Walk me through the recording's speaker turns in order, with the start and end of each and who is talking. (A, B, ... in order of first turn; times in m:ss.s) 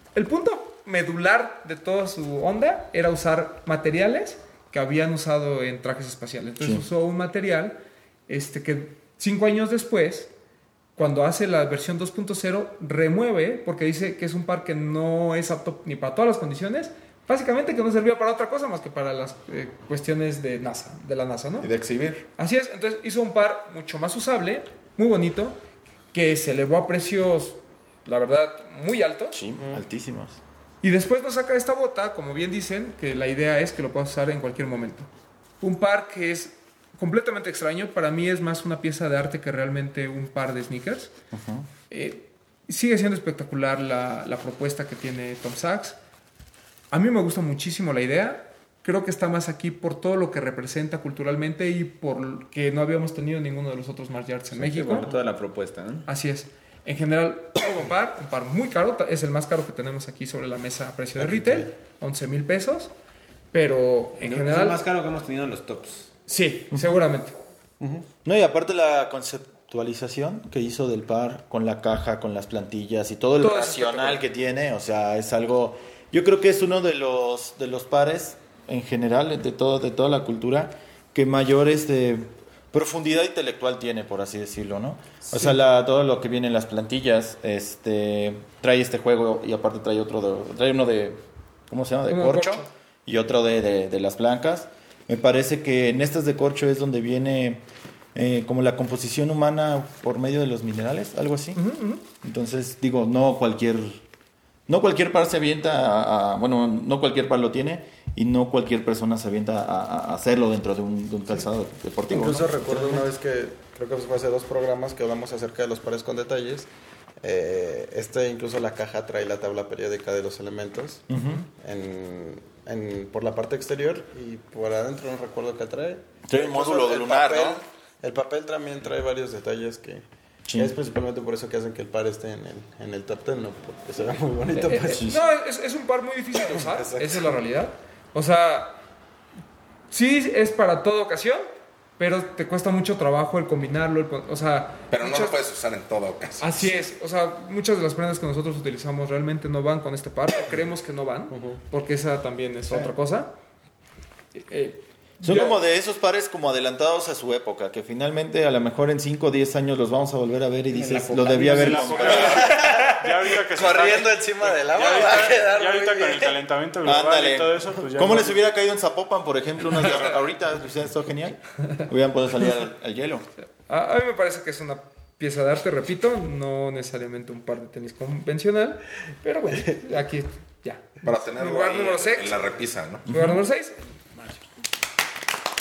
0:00.1-0:10.3 A
0:06.6-0:06.9 B
0:11.0-0:21.7 A
0:21.6-0:22.2 C
0:22.4-0:25.6 A
0:26.1-0:29.4 A
0:29.3-0:30.4 B
0:30.8-0:35.1 A
0:35.6-0:41.1 A
0:41.3-0:41.7 B
0:41.9-0:46.0 A
0:46.9-0:55.1 A
0:54.5-0:56.1 D
0:56.1-1:02.9 A
1:01.2-1:01.7 E
1:03.5-1:04.8 A
1:04.2-1:06.1 D
1:06.3-1:07.3 A
1:07.8-1:08.1 E
1:08.2-1:37.6 B
1:13.4-1:14.2 A
1:25.3-1:25.6 A
1:32.1-1:32.7 A
1:38.1-1:44.0 B
1:41.6-1:42.0 A
1:44.7-1:52.5 B
1:52.1-1:56.7 E
1:52.1-1:53.1 F
1:57.2-2:15.1 E
2:01.1-2:01.4 B
2:06.3-2:07.6 B
2:10.5-2:10.8 B
2:14.6-2:18.8 A
2:14.7-2:15.2 B
2:16.4-2:17.4 E
2:19.9-2:21.5 A
2:22.0-2:25.4 A
2:24.9-2:26.8 C
2:26.4-2:33.3 A
2:31.3-2:31.6 E
2:34.3-2:35.6 A
2:35.2-2:42.8 B
2:40.7-2:42.5 A
2:41.2-2:48.4 F
2:42.2-2:46.4 E
2:44.8-2:45.3 B
2:46.8-2:53.3 B
2:53.6-3:02.6 A
3:01.0-3:03.1 C
3:03.1-3:03.4 B
3:03.1-3:03.9 A